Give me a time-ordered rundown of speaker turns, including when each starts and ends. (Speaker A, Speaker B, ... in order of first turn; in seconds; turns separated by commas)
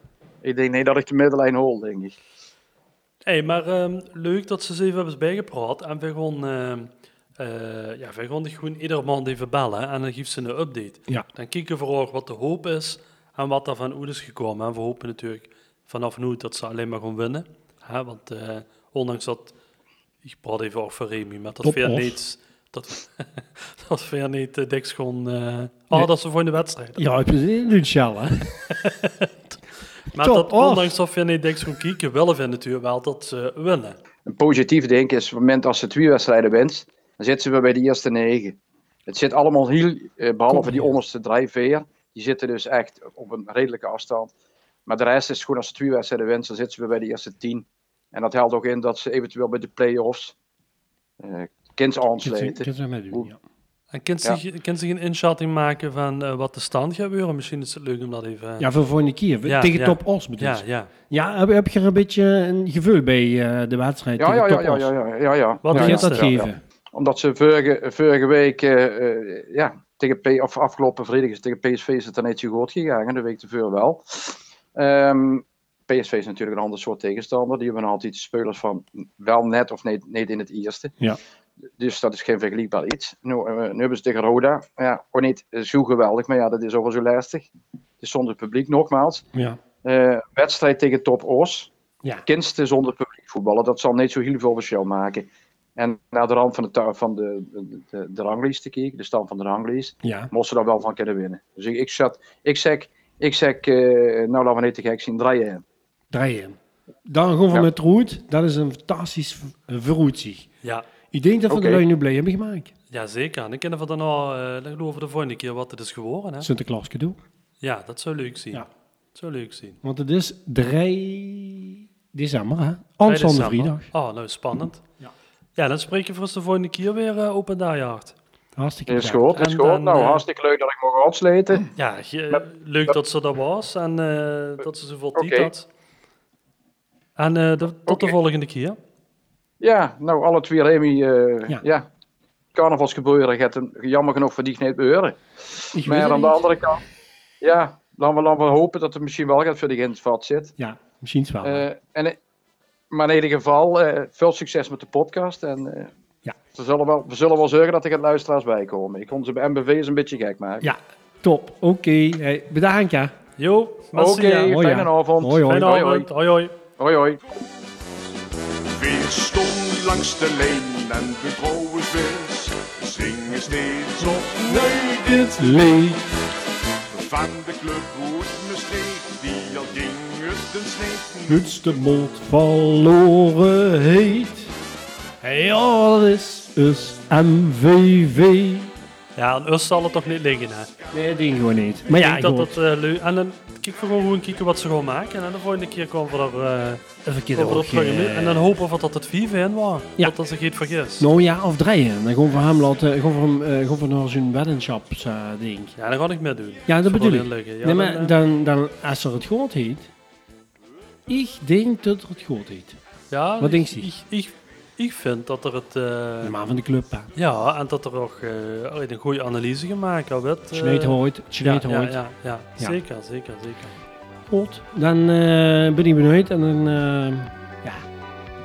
Speaker A: 0.4-2.2, Speaker B: 3.3-19.6, Speaker B: 20.2-27.1, Speaker C: 21.6-22.2, Speaker C: 27.0-28.6, Speaker B: 28.7-29.6, Speaker B: 30.1-34.0, Speaker C: 30.1-30.9, Speaker A: 34.3-38.6, Speaker A: 39.1-44.3, Speaker C: 40.5-40.9, Speaker A: 44.9-50.4, Speaker A: 51.2-53.3, Speaker C: 52.2-53.4, Speaker B: 53.9-58.7, Speaker C: 58.6-64.9, Speaker B: 59.5-60.9, Speaker A: 64.2-80.9, Speaker B: 65.6-66.3, Speaker C: 65.7-66.6, Speaker A: 81.8-87.5, Speaker A: 88.0-89.2, Speaker C: 89.3-89.6, Speaker A: 89.8-91.7, Speaker A: 92.3-105.6, Speaker C: 100.0-100.3, Speaker C: 106.1-110.5, Speaker C: 111.1-112.7, Speaker A: 111.5-111.8, Speaker B: 112.9-116.5, Speaker C: 116.4-117.2, Speaker B: 117.6-119.8, Speaker C: 119.8-123.9, Speaker B: 123.1-124.8, Speaker B: 125.6-128.2, Speaker C: 128.6-129.3, Speaker A: 128.9-131.7, Speaker B: 129.3-130.2, Speaker B: 131.8-135.7, Speaker A: 135.2-135.5, Speaker B: 137.2-138.8, Speaker A: 137.9-138.1, Speaker A: 139.6-141.9, Speaker A: 142.6-146.8, Speaker C: 145.7-146.6, Speaker A: 147.4-150.5, Speaker C: 150.6-151.7, Speaker A: 151.4-152.2, Speaker A: 152.9-155.9, Speaker A: 156.6-160.7, Speaker C: 160.6-163.1, Speaker B: 163.4-164.6, Speaker A: 163.9-166.1, Speaker C: 164.4-165.7, Speaker B: 165.4-166.6, Speaker A: 166.8-167.3, Speaker D: 168.7-175.9, Speaker C: 174.2-176.1, Speaker D: 176.9-181.8, Speaker C: 181.3-184.5, Speaker C: 185.2-188.7, Speaker B: 189.2-190.7, Speaker C: 190.9-192.6, Speaker B: 192.0-201.1, Speaker C: 197.1-198.5, Speaker C: 201.0-205.7, Speaker B: 205.8-208.2, Speaker C: 206.7-209.9, Speaker C: 211.1-212.8, Speaker B: 213.1-216.3, Speaker C: 213.4-213.9, Speaker C: 216.2-217.1, Speaker B: 217.2-223.8, Speaker C: 220.5-222.0, Speaker C: 224.3-227.9